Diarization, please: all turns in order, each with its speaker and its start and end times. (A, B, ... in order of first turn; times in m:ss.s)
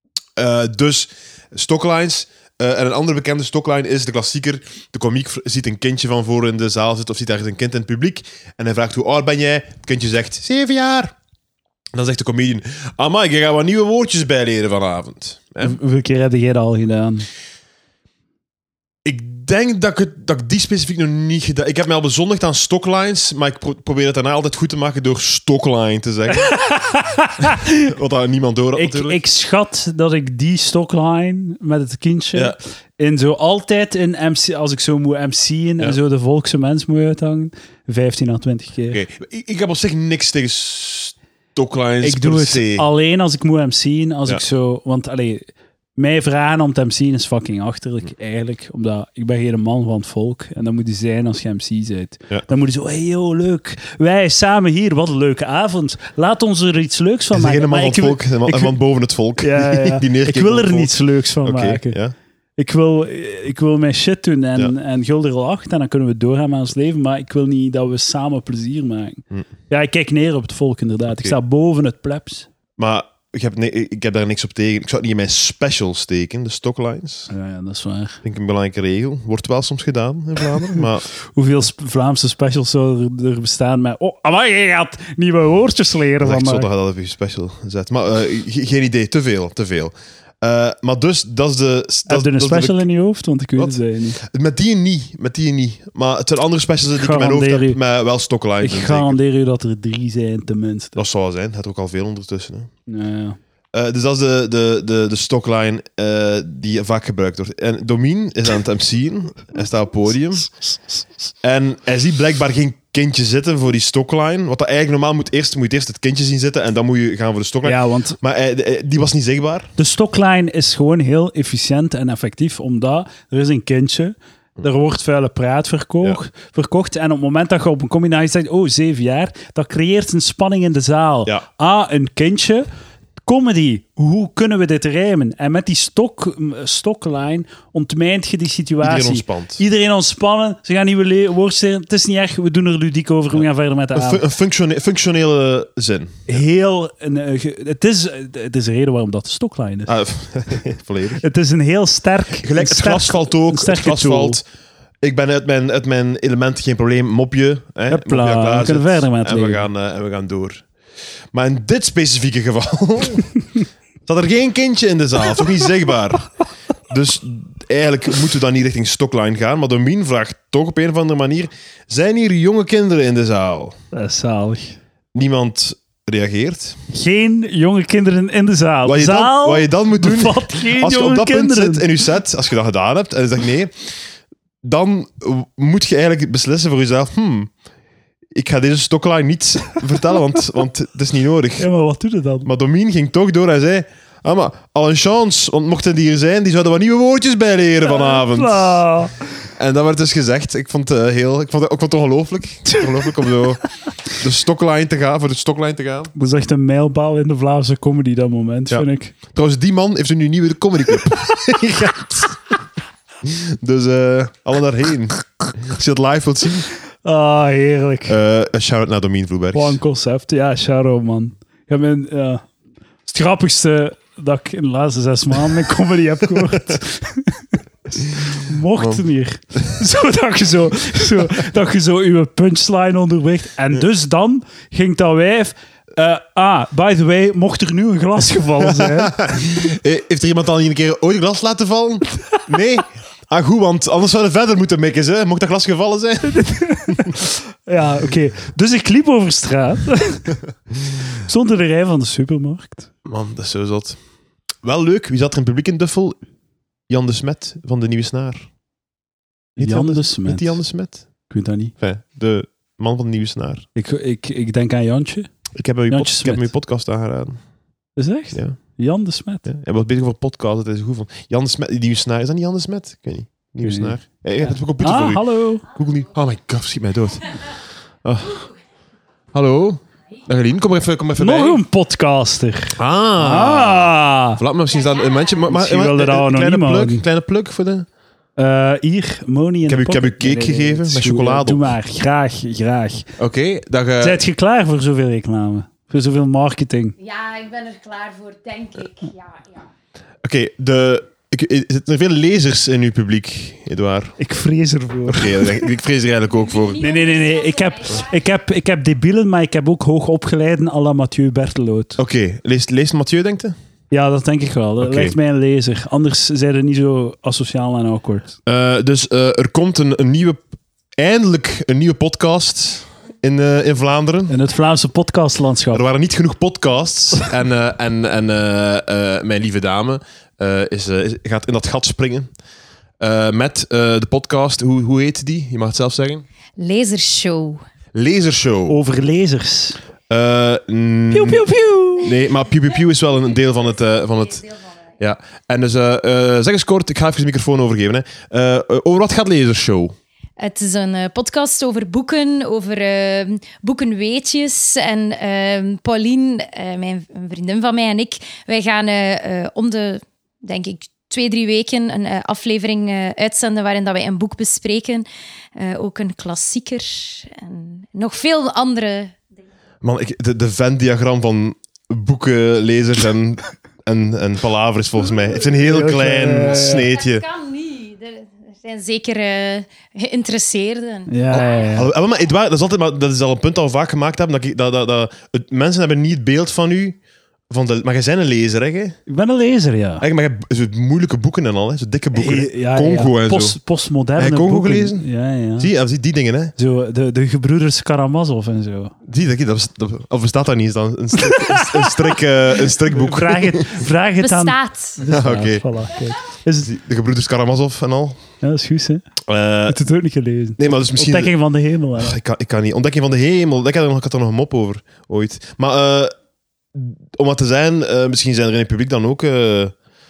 0:00.4-0:11.1 A
0:11.9-0:15.8 A
0:15.6-0:17.3 B
0:19.0-0:26.5 A
0:26.3-0:27.8 B
0:27.8-0:29.2 A
0:28.7-0:39.0 B
0:38.9-0:42.9 A
0:42.0-0:58.7 B
0:57.3-1:02.1 A
0:59.4-1:02.0 B
1:02.6-1:12.5 B
1:12.8-1:17.3 A
1:17.3-1:18.2 B
1:18.2-1:21.1 A
1:20.7-1:26.7 B
1:26.2-1:32.8 A
1:32.1-1:34.2 B
1:33.6-1:39.2 A
1:36.9-1:37.8 B
1:38.6-1:41.0 B
1:41.0-1:42.7 A
1:42.9-1:43.4 B
1:43.7-1:50.5 A
1:51.4-1:59.7 A
1:57.6-1:58.2 B
1:59.8-2:12.7 B
2:13.2-2:24.2 B
2:18.8-2:19.6 A
2:23.9-2:26.4 A
2:26.3-2:29.9 B
2:29.9-2:31.2 A
2:31.2-2:34.4 B
2:32.4-2:34.4 A
2:35.0-2:40.7 A
2:37.9-2:39.6 B
2:41.3-2:43.3 A
2:44.0-2:46.3 A
2:46.9-2:53.8 A
2:53.9-2:54.8 B
2:55.1-2:56.8 A
2:56.9-3:01.9 B
2:58.8-3:03.9 A
3:04.6-3:07.5 A
3:08.3-3:11.7 A
3:11.6-3:12.5 B
3:12.4-3:18.8 A
3:17.8-3:19.2 B
3:19.6-3:26.1 A
3:26.2-3:29.1 B
3:28.7-3:32.4 A
3:33.2-3:36.7 A
3:37.0-3:38.2 B
3:38.1-3:39.8 A
3:39.5-3:42.5 B
3:43.0-3:59.3 B
3:48.2-3:49.0 A
3:58.6-4:07.2 A
4:06.3-4:10.4 B
4:11.2-4:12.9 B
4:13.0-4:14.0 A
4:14.6-4:16.2 A
4:16.9-4:18.5 A
4:19.6-4:20.6 B
4:19.6-4:21.1 A
4:21.3-4:21.7 B
4:21.8-4:23.6 A
4:23.8-4:25.3 B
4:25.5-4:27.4 A
4:25.9-4:26.5 B
4:28.0-4:29.4 B
4:29.4-4:38.5 A
4:33.6-4:34.0 B
4:34.8-4:35.6 B
4:39.3-4:41.6 A
4:41.2-4:44.4 B
4:42.8-4:47.9 A
4:45.5-4:47.0 B
4:48.4-4:53.1 B
4:49.6-4:51.7 A
4:53.2-4:54.2 A
4:54.0-4:56.9 B
4:57.0-4:59.6 C
5:00.2-5:04.2 A
5:04.2-5:05.7 B
5:05.1-5:06.9 A
5:06.5-5:08.2 C
5:06.8-5:12.0 B
5:12.0-5:13.5 A
5:13.9-5:18.4 B
5:14.8-5:15.2 A
5:18.4-5:20.4 A
5:21.0-5:24.4 A
5:24.3-5:25.8 B
5:25.7-5:32.3 A
5:33.0-5:36.2 A
5:36.6-5:37.6 C
5:37.9-5:38.8 A
5:38.7-5:39.8 B
5:40.1-5:44.4 A
5:41.1-5:42.1 B
5:45.0-5:50.0 A
5:50.4-6:09.2 C
6:09.8-6:17.2 A
6:15.6-6:16.9 B
6:16.6-6:21.6 C
6:21.1-6:21.9 B
6:21.3-6:27.0 A
6:27.5-6:29.0 A
6:29.1-6:30.0 B
6:30.0-6:33.6 A
6:32.1-6:35.7 B
6:34.2-6:35.0 A
6:35.6-6:36.5 A
6:36.6-6:38.9 B
6:39.0-6:43.9 A
6:41.2-6:42.0 B
6:42.9-6:46.7 B
6:44.2-6:45.0 C
6:45.1-6:45.6 A
6:46.6-6:48.2 A
6:48.4-6:49.0 B
6:49.3-6:49.8 A
6:49.7-6:52.2 B
6:50.6-6:51.3 A
6:52.0-6:56.1 A
6:56.7-6:59.7 A